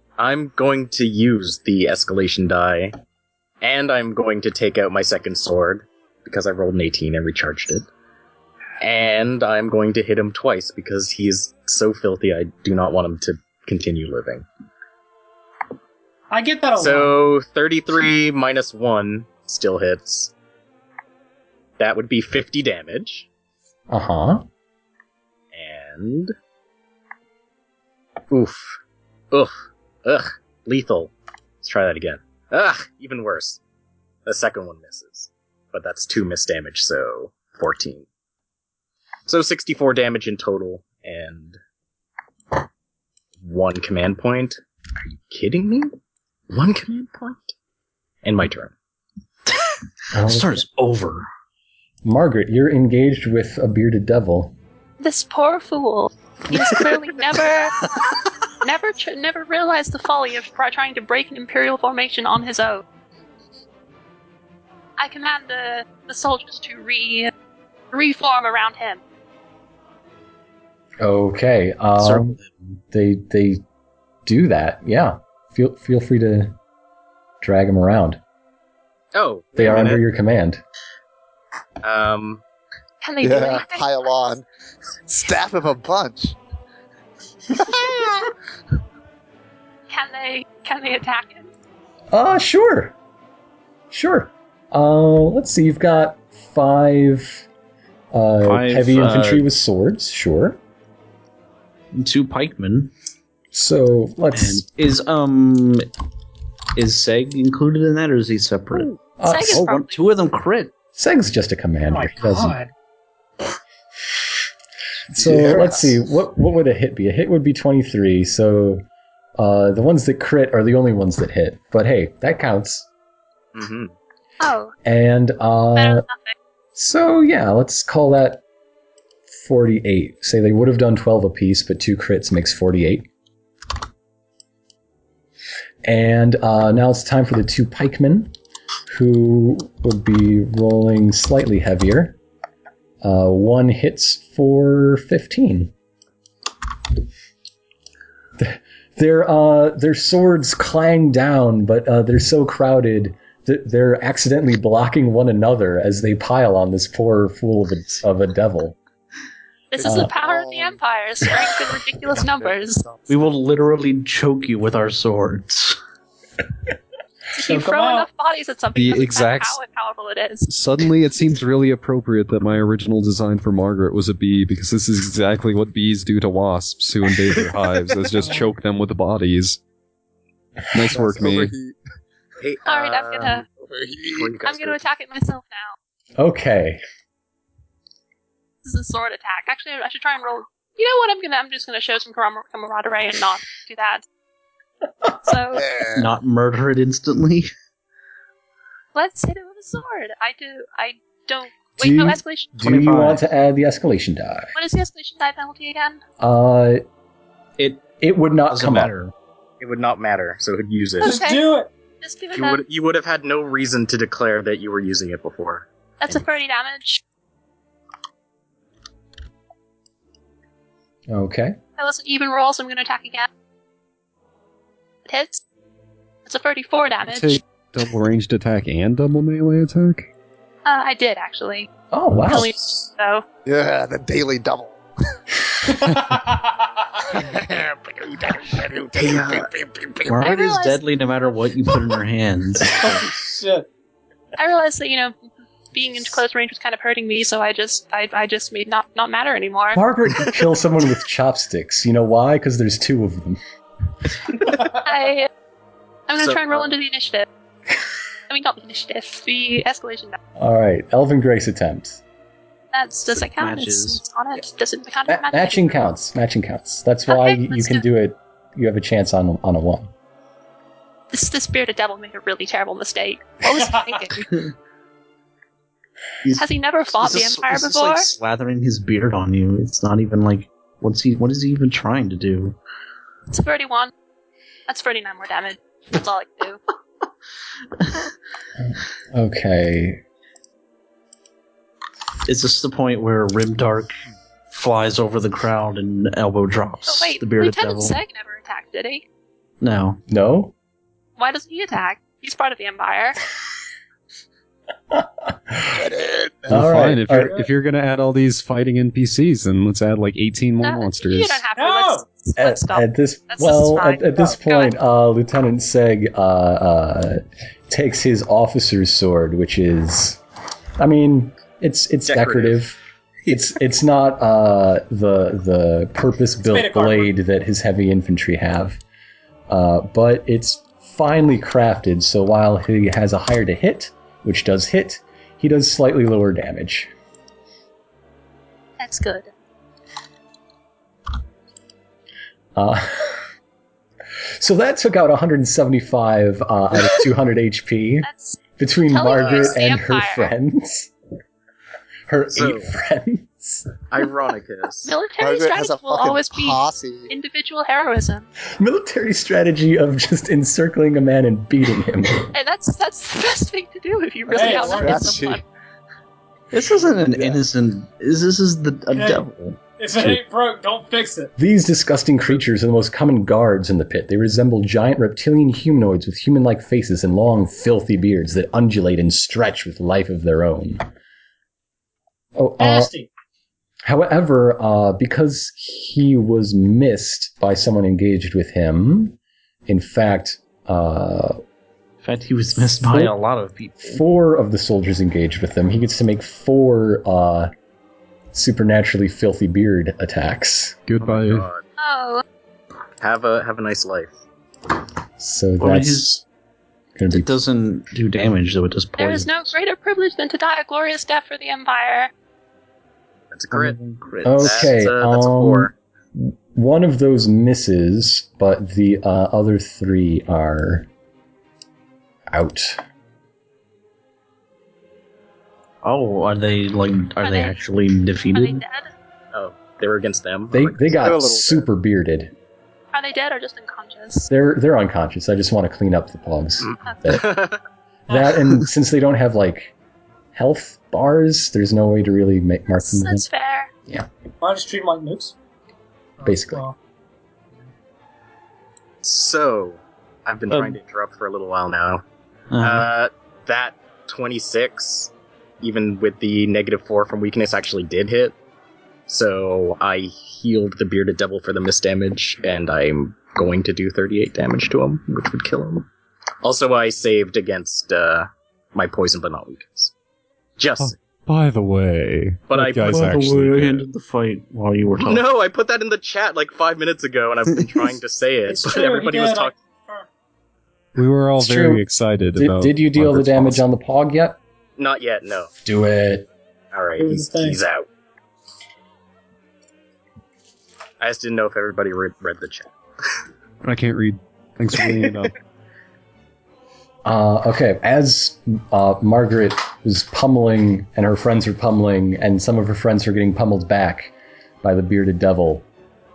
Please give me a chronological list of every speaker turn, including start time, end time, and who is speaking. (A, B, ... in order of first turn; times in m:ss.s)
0:00.2-0:03.0 A
0:03.6-0:07.9 A
0:08.8-0:14.5 A
0:16.3-0:17.2 B
0:16.8-0:20.3 A
0:21.8-0:23.3 A
0:23.9-0:24.4 C
0:25.5-0:26.3 A
0:28.3-0:28.8 A
0:29.3-0:31.1 A
0:31.6-0:33.6 A
0:34.3-0:38.1 A
0:39.3-0:41.6 A
0:43.4-0:45.9 A
0:46.5-0:47.5 A
0:48.2-0:48.7 A
0:50.1-0:50.7 C
0:50.2-0:51.3 D
0:52.0-0:54.6 C
0:55.0-0:57.9 E
0:58.6-1:02.8 E
1:05.0-1:07.3 E
1:07.9-1:09.0 E
1:11.0-1:12.4 C
1:12.0-1:12.8 D
1:12.9-1:13.6 C
1:14.3-1:16.6 C
1:17.4-1:18.2 C
1:19.1-1:20.0 A
1:19.6-1:20.6 C
1:21.8-1:22.4 A
1:23.0-1:24.4 E
1:23.2-1:24.4 F
1:25.0-1:26.4 F
1:27.5-1:28.3 F
1:29.9-1:31.5 E
1:32.1-1:33.0 C
1:33.9-1:37.4 C
1:38.1-1:40.6 C
1:38.4-1:39.5 D
1:41.9-1:42.9 D
1:43.5-1:44.6 C
1:44.3-1:45.9 D
1:46.8-1:48.9 D
1:49.2-1:49.6 C
1:49.2-1:50.0 E
1:49.5-1:50.7 D
1:51.0-1:52.6 C
1:51.9-1:52.7 B
1:55.1-1:58.8 C
1:55.2-1:55.9 F
1:55.5-1:55.8 B
1:59.4-2:02.9 C
2:03.6-2:03.9 A
2:04.4-2:04.7 E
2:04.8-2:06.1 C
2:05.8-2:06.3 E
2:06.8-2:08.4 C
2:09.4-2:13.1 C
2:15.8-2:18.3 C
2:18.9-2:22.2 C
2:23.0-2:25.7 C
2:28.4-2:38.8 C
2:39.7-2:42.9 E
2:39.8-2:40.1 C
2:39.8-2:40.8 F
2:41.3-2:41.8 C
2:42.1-2:43.1 F
2:43.1-2:45.8 D
2:47.3-2:50.5 E
2:47.4-2:48.1 B
2:48.8-2:49.6 G
2:50.5-2:59.6 G
2:58.2-2:58.5 B
3:00.7-3:01.5 G
3:00.8-3:01.8 F
3:02.4-3:03.4 A
3:02.7-3:03.4 E
3:03.7-3:04.3 F
3:04.0-3:04.8 A
3:04.4-3:05.8 E
3:06.2-3:06.8 C
3:08.6-3:14.0 E
3:15.2-3:15.6 E
3:15.5-3:16.1 F
3:16.0-3:17.5 D
3:19.0-3:22.6 E
3:21.8-3:24.5 C
3:22.6-3:23.2 D
3:24.6-3:26.0 E
3:26.2-3:26.8 C
3:28.0-3:28.9 C
3:28.5-3:29.1 D
3:29.6-3:31.2 A
3:31.0-3:31.4 E
3:31.0-3:31.7 B
3:32.0-3:32.6 E
3:32.4-3:36.2 A
3:36.0-3:37.0 E
3:41.1-3:41.6 C
3:41.8-3:43.3 E
3:45.1-3:45.4 E
3:46.3-3:47.4 E
3:47.0-3:50.1 G
3:50.7-3:51.7 E
3:51.9-3:52.6 C
3:52.2-3:53.2 E
3:53.5-3:55.2 F
3:55.9-3:56.5 B
3:57.1-4:00.2 F
3:59.1-3:59.5 A
4:00.1-4:02.9 D
4:00.2-4:00.9 E
4:02.8-4:03.7 B
4:04.4-4:05.2 E
4:05.7-4:09.8 E
4:09.7-4:13.4 C
4:14.8-4:15.3 E
4:16.1-4:17.3 E
4:16.2-4:16.7 A
4:18.3-4:20.2 E
4:20.4-4:22.0 C
4:22.7-4:25.9 E
4:23.1-4:24.0 D
4:25.1-4:29.9 C
4:27.1-4:27.8 E
4:31.1-4:34.3 E
4:33.6-4:34.0 B
4:36.2-4:42.6 D
4:36.4-4:38.1 E
4:43.3-4:43.9 E
4:44.7-4:46.6 E
4:47.8-4:48.1 D
4:48.6-4:50.0 C
4:52.3-4:54.0 D
4:54.5-4:58.0 D
4:56.9-4:59.0 E
4:59.6-5:00.0 D
5:00.1-5:00.5 C
5:01.2-5:03.2 E
5:04.9-5:05.8 C
5:05.7-5:06.7 F
5:06.5-5:07.4 C
5:06.5-5:11.4 G
5:07.1-5:07.5 B
5:10.6-5:14.8 E
5:11.5-5:12.1 B
5:12.4-5:20.2 C
5:20.8-5:28.8 C
5:22.1-5:22.6 A
5:26.5-5:27.1 B
5:29.5-5:36.9 C
5:38.8-5:39.3 E
5:42.6-5:43.3 C
5:44.4-5:50.9 C
5:48.0-5:50.3 E
5:49.2-5:49.6 A
5:52.1-5:53.8 C
5:52.3-5:52.7 A
5:53.9-5:54.9 A
5:54.8-5:58.3 E
5:55.2-5:57.1 F
5:58.5-6:02.3 C
6:02.3-6:05.4 E
6:04.3-6:05.2 B
6:04.3-6:05.4 F
6:06.5-6:09.6 D
6:08.9-6:09.2 B
6:09.8-6:11.3 B
6:11.4-6:20.9 C
6:22.4-6:22.9 C
6:22.6-6:23.1 B
6:23.8-6:31.4 C
6:32.0-6:34.0 D
6:32.8-6:33.2 C
6:33.8-6:37.5 C
6:38.3-6:40.8 C
6:40.9-6:41.5 G
6:41.0-6:41.6 A
6:41.8-6:42.2 E
6:43.0-6:44.2 A
6:45.2-6:46.1 C
6:45.6-6:46.2 D
6:47.0-6:47.4 C
6:47.1-6:49.5 D
6:49.0-6:52.1 E
6:53.3-6:53.8 A
6:53.5-6:54.7 D
6:54.2-7:00.9 C
6:54.4-6:55.7 A
7:02.3-7:02.8 C
7:05.8-7:08.6 D
7:07.2-7:07.6 E
7:08.3-7:08.9 E
7:09.3-7:11.0 A
7:10.5-7:12.3 C
7:11.0-7:11.6 F
7:12.9-7:14.3 E
7:14.3-7:17.3 C
7:16.6-7:17.6 A
7:16.8-7:17.2 E
7:18.1-7:19.7 C
7:20.3-7:23.3 C
7:22.8-7:23.7 E
7:24.4-7:25.4 B
7:26.2-7:26.8 B
7:26.2-7:26.7 C
7:29.0-7:32.0 A
7:30.5-7:30.8 D
7:32.5-7:32.9 D
7:32.6-7:38.4 A
7:39.1-7:45.9 A
7:46.4-7:49.9 A
7:50.6-7:51.0 A
7:50.8-7:53.9 G
7:52.5-7:53.2 A
7:52.8-7:55.3 D
7:55.0-7:59.6 A
7:58.5-8:00.1 B
8:01.0-8:03.6 G
8:01.4-8:01.8 C
8:02.4-8:04.4 C
8:04.8-8:05.5 A
8:05.6-8:06.3 C
8:06.7-8:07.9 A
8:07.0-8:07.6 B
8:11.0-8:12.7 A
8:13.6-8:15.4 G
8:14.8-8:15.1 A
8:17.0-8:25.7 C